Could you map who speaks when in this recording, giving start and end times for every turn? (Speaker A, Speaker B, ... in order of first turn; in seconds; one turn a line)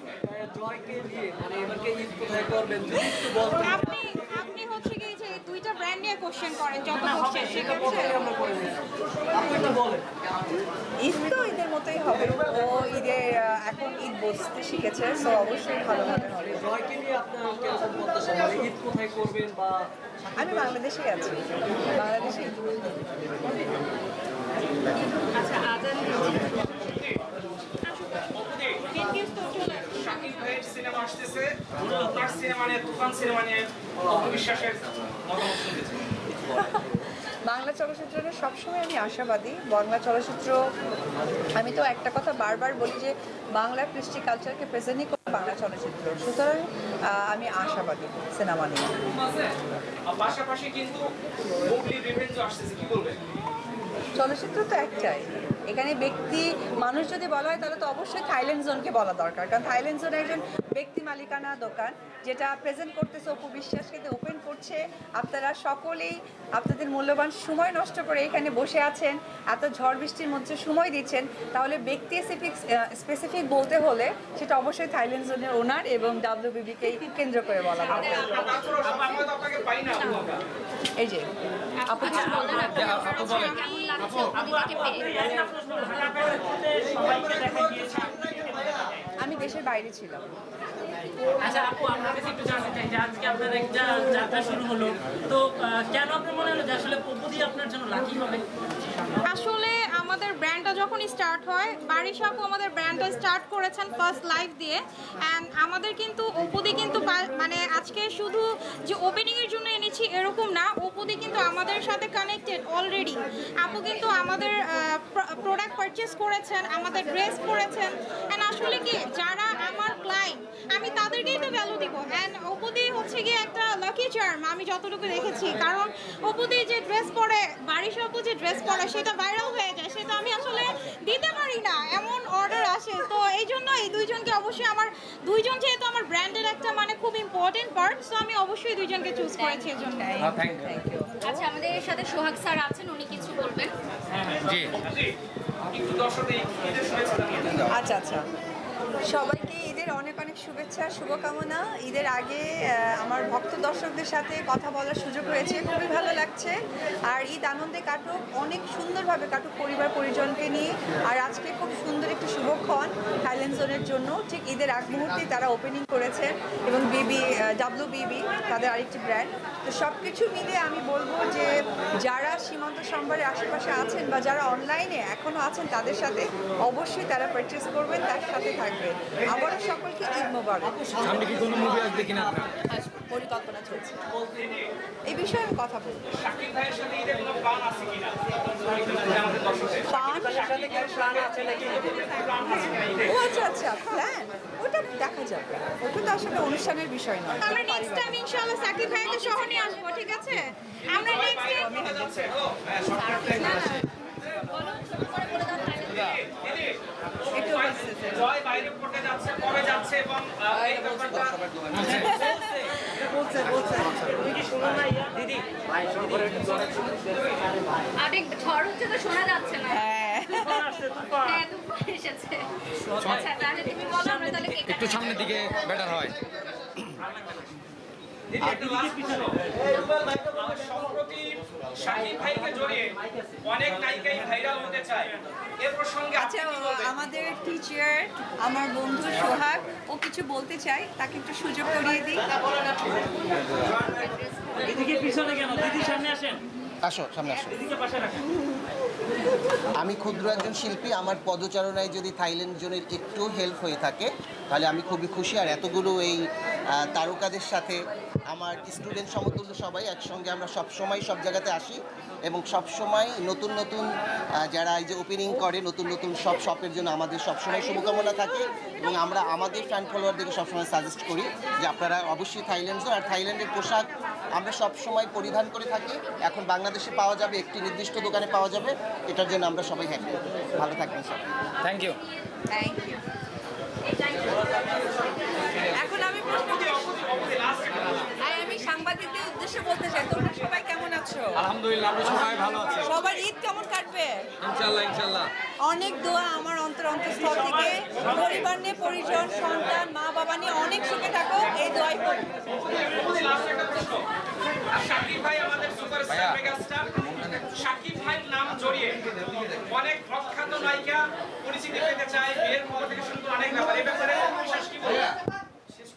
Speaker A: 0.2-3.9
Speaker B: 3.6-8.3
Speaker A: 6.9-10.1
Speaker C: 11.0-16.6
Speaker A: 16.4-20.7
Speaker C: 20.4-21.4
Speaker C: 21.9-22.9
Speaker D: 25.4-26.4
Speaker E: 26.9-27.2
Speaker B: 27.9-28.3
Speaker E: 28.4-28.9
Speaker B: 28.9-30.6
Speaker E: 29.4-36.1
Speaker C: 36.5-40.6
Speaker C: 41.6-49.0
Speaker E: 50.1-53.2
Speaker C: 54.2-78.5
Speaker D: 77.8-79.2
Speaker E: 77.9-80.4
Speaker D: 79.9-80.2
Speaker C: 81.0-81.3
Speaker D: 81.8-85.5
Speaker C: 81.8-82.3
Speaker F: 82.0-88.9
Speaker G: 82.7-84.3
Speaker C: 89.2-90.3
Speaker F: 91.4-99.2
Speaker B: 99.2-140.2
Speaker C: 139.4-141.5
Speaker G: 140.2-140.8
Speaker D: 141.2-143.7
Speaker E: 144.1-145.1
Speaker G: 144.4-144.8
Speaker E: 145.7-147.7
Speaker C: 147.7-148.2
Speaker C: 149.1-156.5
Speaker C: 157.1-180.8
Speaker A: 180.7-182.5
Speaker G: 181.0-182.5
Speaker C: 182.7-184.1
Speaker E: 184.2-184.7
Speaker C: 185.1-186.0
Speaker E: 186.1-193.3
Speaker C: 189.9-190.5
Speaker A: 190.7-191.3
Speaker C: 193.0-198.2
Speaker B: 197.4-201.7
Speaker E: 200.8-203.8
Speaker C: 201.5-202.3
Speaker D: 202.9-203.8
Speaker D: 204.5-206.1
Speaker E: 205.5-211.5
Speaker C: 207.3-208.3
Speaker G: 211.5-212.1
Speaker F: 211.7-217.8
Speaker C: 212.0-213.1
Speaker D: 218.0-219.8
Speaker C: 219.7-220.8
Speaker F: 220.4-221.5
Speaker D: 221.2-222.5
Speaker F: 222.8-225.4
Speaker D: 223.1-225.8
Speaker G: 224.6-226.2
Speaker F: 227.0-227.5
Speaker E: 228.3-229.4
Speaker F: 228.4-229.7
Speaker E: 230.3-232.9
Speaker E: 233.4-236.9
Speaker C: 236.2-242.3
Speaker D: 243.9-244.3
Speaker F: 244.6-246.4
Speaker H: 246.8-247.5
Speaker F: 247.3-248.3
Speaker H: 249.8-256.2
Speaker H: 256.8-257.8
Speaker H: 258.3-263.9
Speaker H: 264.4-281.3
Speaker G: 281.6-282.0
Speaker C: 282.5-283.0
Speaker C: 285.7-286.9
Speaker E: 286.3-288.1
Speaker C: 288.2-291.5
Speaker G: 291.4-292.9
Speaker E: 292.0-293.2
Speaker C: 292.8-294.2
Speaker G: 294.4-295.3
Speaker C: 295.6-302.3
Speaker E: 302.6-304.1
Speaker E: 304.7-307.0
Speaker G: 306.1-306.4
Speaker G: 307.1-307.5
Speaker E: 307.5-309.0
Speaker E: 309.7-315.2